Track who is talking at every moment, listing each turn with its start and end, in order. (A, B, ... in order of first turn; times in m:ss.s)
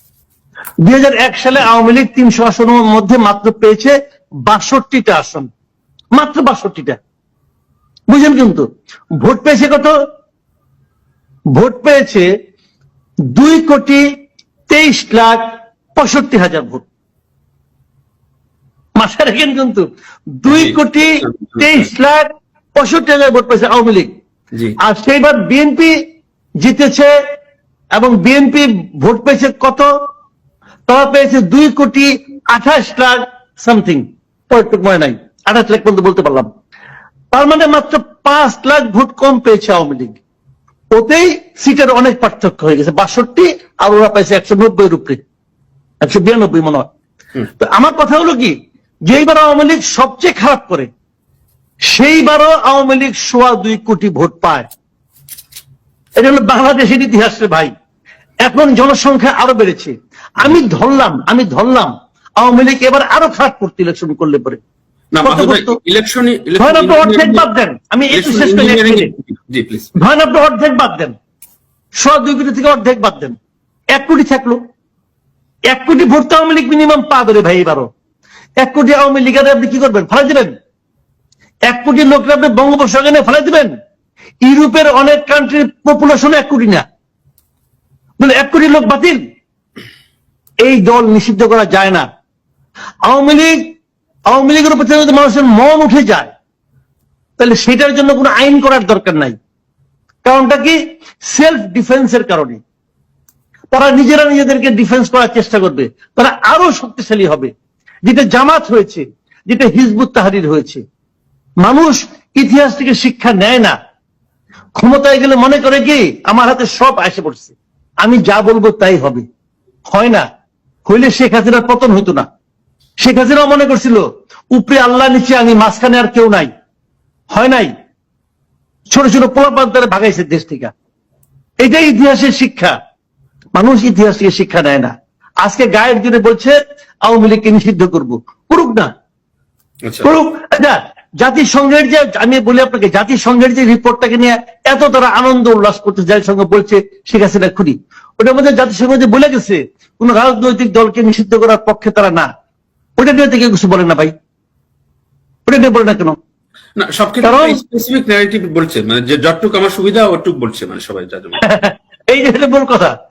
0:00.8-0:04.0 A
0:04.5-0:05.5 A
0:06.2-0:07.0 A
0:08.1-0:08.7 A
0:09.2-0:09.9 A
0:11.6-0:12.3 A
0:13.4-0:14.0 A
0:14.7-0:15.4 A
0:16.0-0:16.9 A
0:19.0-0:19.9 A
0:20.4-0:24.1 A
0:20.5-0:21.9 B
0:24.8-0:25.9 A
0:26.6-0:27.1 A
0:28.0-0:29.9 A
0:30.9-0:36.5 A
0:37.3-0:40.2 A
0:41.0-0:45.2 A
0:46.0-0:46.9 A
0:47.6-0:48.5 A
0:49.1-0:50.9 A
0:51.9-0:54.7 A
0:56.2-0:57.7 A
0:58.4-1:04.6 A
1:05.1-1:07.5 B
1:05.2-1:05.8 A
1:06.6-1:09.1 A
1:08.1-1:09.9 B
1:10.0-1:11.1 A
1:12.0-1:13.4 A
1:14.0-1:14.6 A
1:15.7-1:17.9 A
1:18.6-1:20.5 A
1:21.7-1:23.7 A
1:24.4-1:26.8 A
1:28.2-1:29.2 A
1:30.6-1:32.1 A
1:33.1-1:33.6 A
1:34.3-1:36.3 A
1:37.4-1:39.4 A
1:40.2-1:42.6 A
1:43.7-1:47.5 A
1:48.1-1:50.8 A
1:51.6-1:53.8 A
1:54.8-1:59.2 A
1:59.9-2:00.3 A
2:00.9-2:02.3 A
2:03.0-2:04.0 A
2:04.5-2:06.5 A
2:07.3-2:07.7 A
2:08.9-2:10.7 A
2:11.6-2:12.8 A
2:13.6-2:14.9 A
2:15.4-2:18.9 A
2:19.9-2:20.2 B
2:20.0-2:32.3 A
2:33.0-2:34.1 A
2:35.5-2:36.2 A
2:36.8-2:41.4 B
2:37.2-2:37.6 A
2:41.4-2:42.9 A